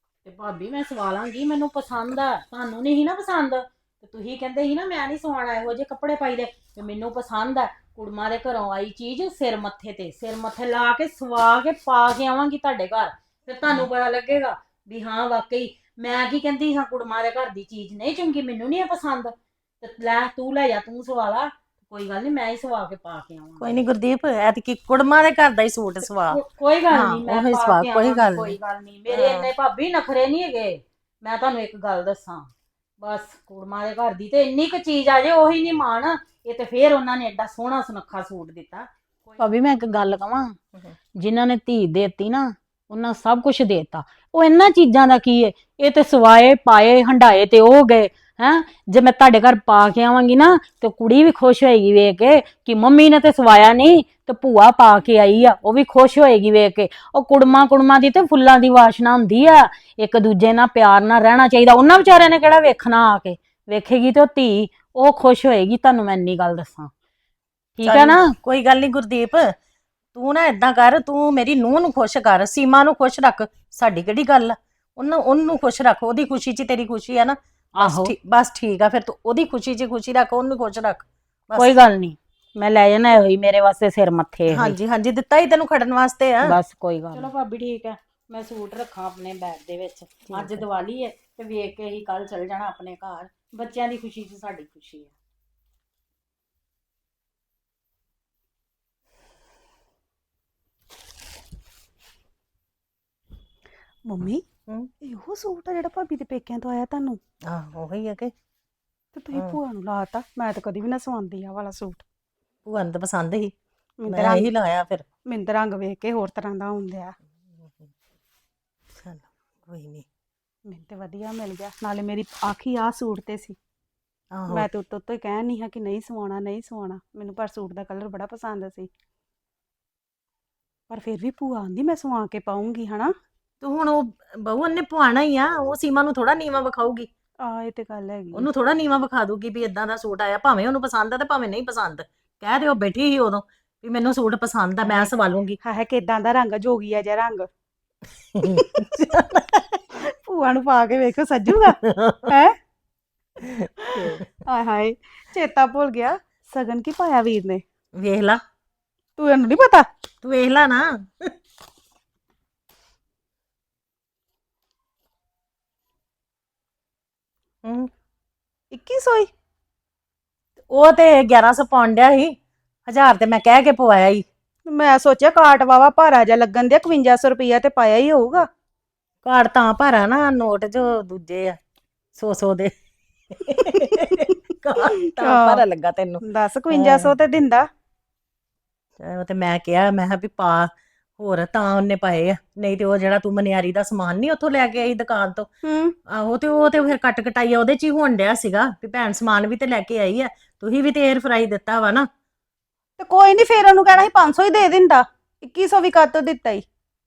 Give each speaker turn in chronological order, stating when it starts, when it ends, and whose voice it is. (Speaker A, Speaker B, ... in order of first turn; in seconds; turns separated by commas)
Speaker A: 0.2-23.8, Speaker B: 23.6-28.6, Speaker A: 26.3-40.5, Speaker B: 29.1-29.5, Speaker A: 41.2-66.9, Speaker A: 67.8-68.3, Speaker B: 67.8-69.5, Speaker B: 70.1-81.7, Speaker A: 77.8-78.1, Speaker A: 81.5-84.8, Speaker B: 84.5-86.6, Speaker A: 86.4-95.1, Speaker B: 90.2-90.7, Speaker C: 104.0-104.4, Speaker C: 105.0-107.2, Speaker B: 107.5-108.3, Speaker C: 109.1-112.0, Speaker B: 112.6-115.0, Speaker C: 114.0-114.5, Speaker C: 115.3-117.1, Speaker B: 117.6-117.9, Speaker B: 118.9-120.0, Speaker C: 120.7-123.6, Speaker B: 124.3-124.7, Speaker C: 124.5-128.9, Speaker C: 130.9-133.1, Speaker B: 133.6-137.1, Speaker C: 137.4-138.5, Speaker B: 138.3-145.6, Speaker C: 144.8-145.1, Speaker C: 145.6-147.5, Speaker B: 148.3-149.8, Speaker C: 150.0-152.5, Speaker B: 151.7-152.3, Speaker B: 153.4-154.3, Speaker C: 153.8-157.6, Speaker B: 157.9-158.4, Speaker C: 159.2-159.8, Speaker B: 160.2-161.3, Speaker B: 167.6-167.9, Speaker C: 168.7-169.3, Speaker B: 170.7-172.3, Speaker B: 172.9-174.2, Speaker C: 174.7-178.5, Speaker B: 179.2-181.6, Speaker B: 182.1-182.7, Speaker B: 183.3-187.1, Speaker C: 184.8-185.6, Speaker C: 186.2-187.6, Speaker B: 189.0-195.5, Speaker C: 195.6-195.9, Speaker B: 196.1-202.1, Speaker C: 203.0-206.6